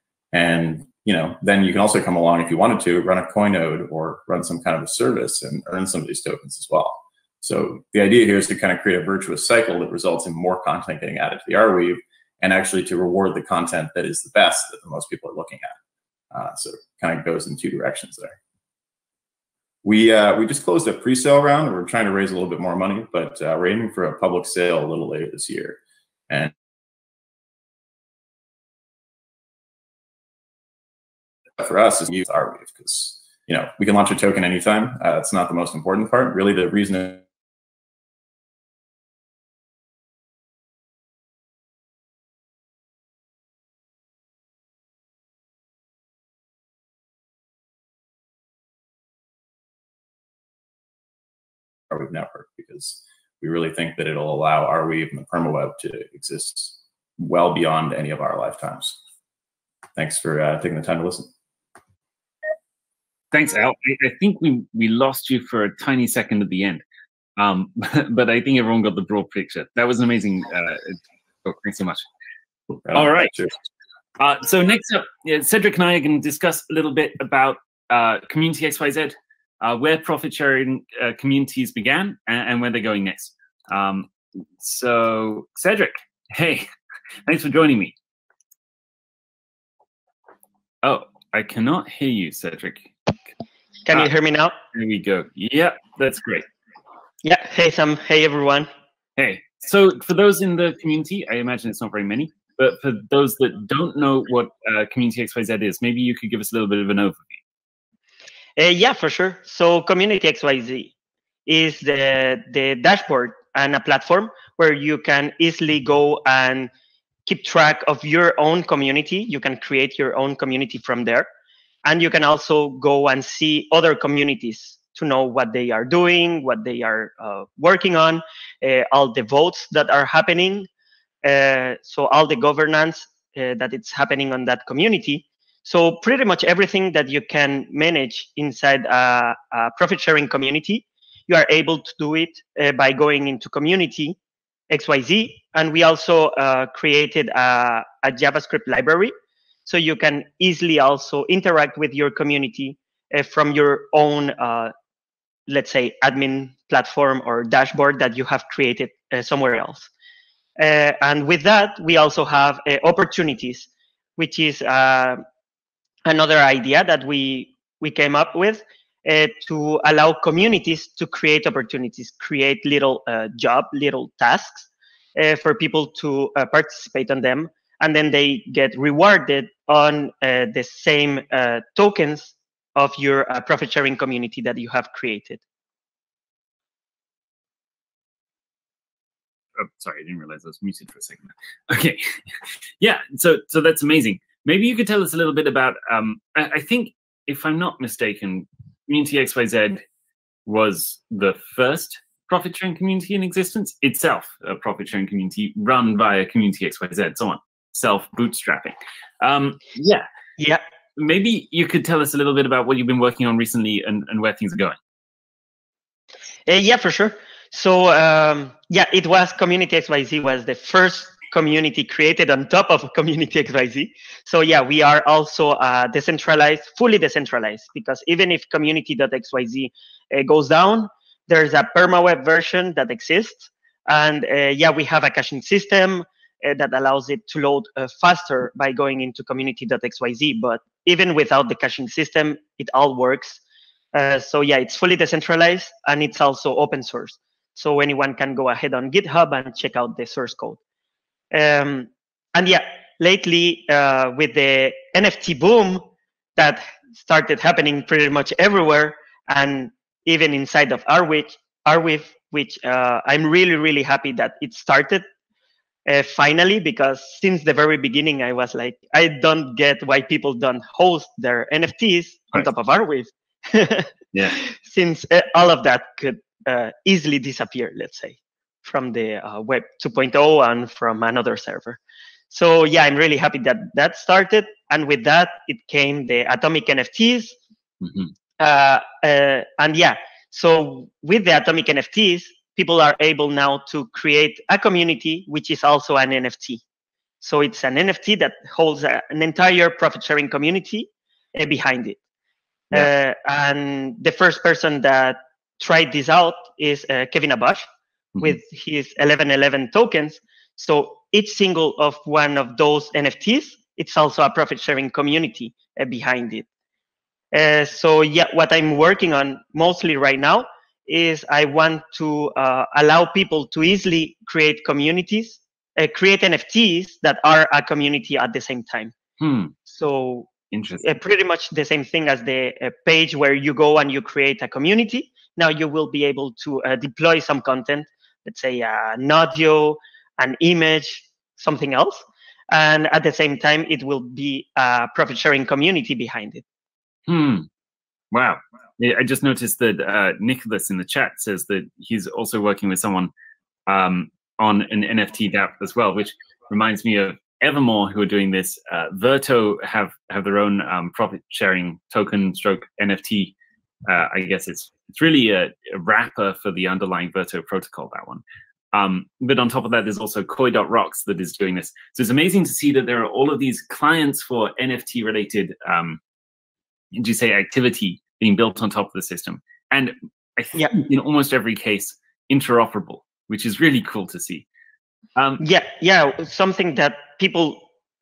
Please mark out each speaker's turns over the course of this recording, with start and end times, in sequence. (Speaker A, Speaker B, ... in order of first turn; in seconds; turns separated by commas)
Speaker A: 0.3-15.7, Speaker A: 16.3-18.4, Speaker A: 19.8-26.5, Speaker A: 31.6-37.2, Speaker A: 51.9-59.0, Speaker A: 60.0-61.3, Speaker B: 63.3-66.8, Speaker B: 67.4-72.0, Speaker A: 72.8-73.5, Speaker B: 72.9-73.3, Speaker B: 74.2-86.7, Speaker B: 87.3-87.9, Speaker B: 90.8-92.9, Speaker C: 93.9-94.5, Speaker B: 94.7-96.5, Speaker C: 97.2-98.7, Speaker B: 99.2-107.4, Speaker C: 108.6-110.9, Speaker C: 111.5-116.7, Speaker C: 117.2-121.3, Speaker C: 121.8-130.7, Speaker C: 131.2-144.2, Speaker C: 144.7-149.1, Speaker C: 149.7-154.7, Speaker C: 155.5-159.9, Speaker C: 160.6-165.2, Speaker C: 166.1-185.4, Speaker B: 189.6-199.8, Speaker B: 200.4-210.1, Speaker C: 210.4-210.6, Speaker B: 210.9-214.8, Speaker C: 216.5-243.4, Speaker C: 243.9-250.6, Speaker C: 251.3-255.8, Speaker C: 256.4-265.0, Speaker C: 265.9-273.9, Speaker B: 274.1-274.4, Speaker C: 274.6-281.8, Speaker C: 282.3-287.4, Speaker B: 287.8-288.1, Speaker C: 288.4-296.6, Speaker C: 297.2-302.0, Speaker C: 302.7-307.7, Speaker C: 308.2-316.4, Speaker C: 317.3-328.9, Speaker B: 329.2-329.5, Speaker C: 329.6-346.4, Speaker B: 330.5-330.9, Speaker B: 347.1-347.5, Speaker B: 348.1-353.1, Speaker B: 353.7-363.3, Speaker B: 363.9-368.2, Speaker B: 368.7-376.0, Speaker B: 376.9-384.4, Speaker B: 385.1-385.4, Speaker C: 385.4-387.6